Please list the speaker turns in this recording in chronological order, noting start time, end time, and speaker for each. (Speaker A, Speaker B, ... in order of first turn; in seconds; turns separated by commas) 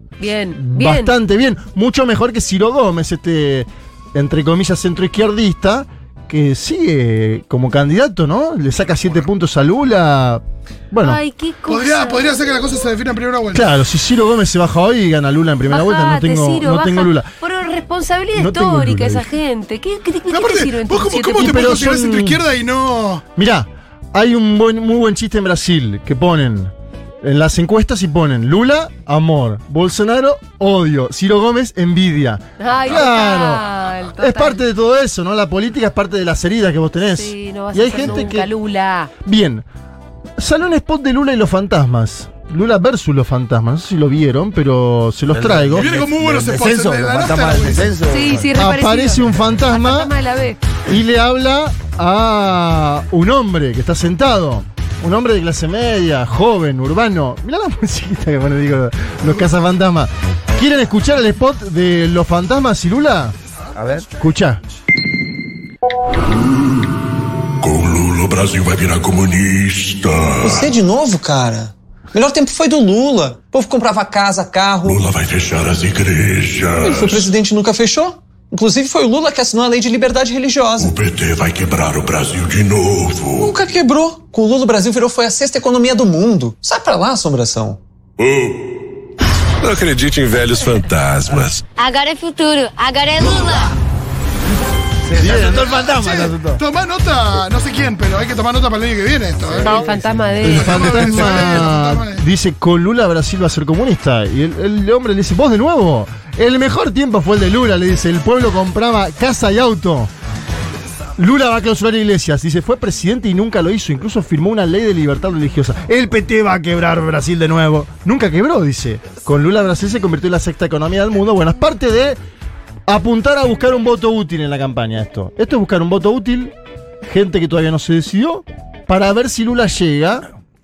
Speaker A: 0.2-1.1, Speaker B: 0.5-11.2, Speaker A: 11.0-12.6, Speaker C: 11.7-13.7, Speaker B: 13.5-17.3, Speaker A: 15.7-21.8, Speaker B: 18.3-19.2, Speaker C: 20.3-23.2, Speaker B: 21.3-22.4, Speaker B: 23.4-38.5, Speaker A: 32.6-34.6, Speaker A: 37.0-39.1, Speaker B: 39.2-39.6, Speaker B: 40.4-46.0, Speaker D: 45.3-48.5, Speaker C: 45.8-47.9, Speaker A: 48.1-50.6, Speaker B: 48.5-50.1, Speaker B: 50.9-63.3, Speaker D: 63.7-64.1, Speaker B: 64.2-64.6, Speaker E: 67.6-70.7, Speaker F: 70.4-75.0, Speaker E: 74.8-77.3, Speaker F: 76.8-80.9, Speaker E: 80.8-83.5, Speaker F: 83.3-87.8, Speaker E: 88.2-88.8, Speaker E: 89.6-91.7, Speaker G: 91.8-93.7, Speaker D: 95.0-96.6, Speaker C: 95.2-102.2, Speaker D: 99.5-100.3, Speaker A: 99.6-101.2, Speaker B: 100.4-110.1, Speaker B: 111.2-122.2, Speaker B: 122.9-130.2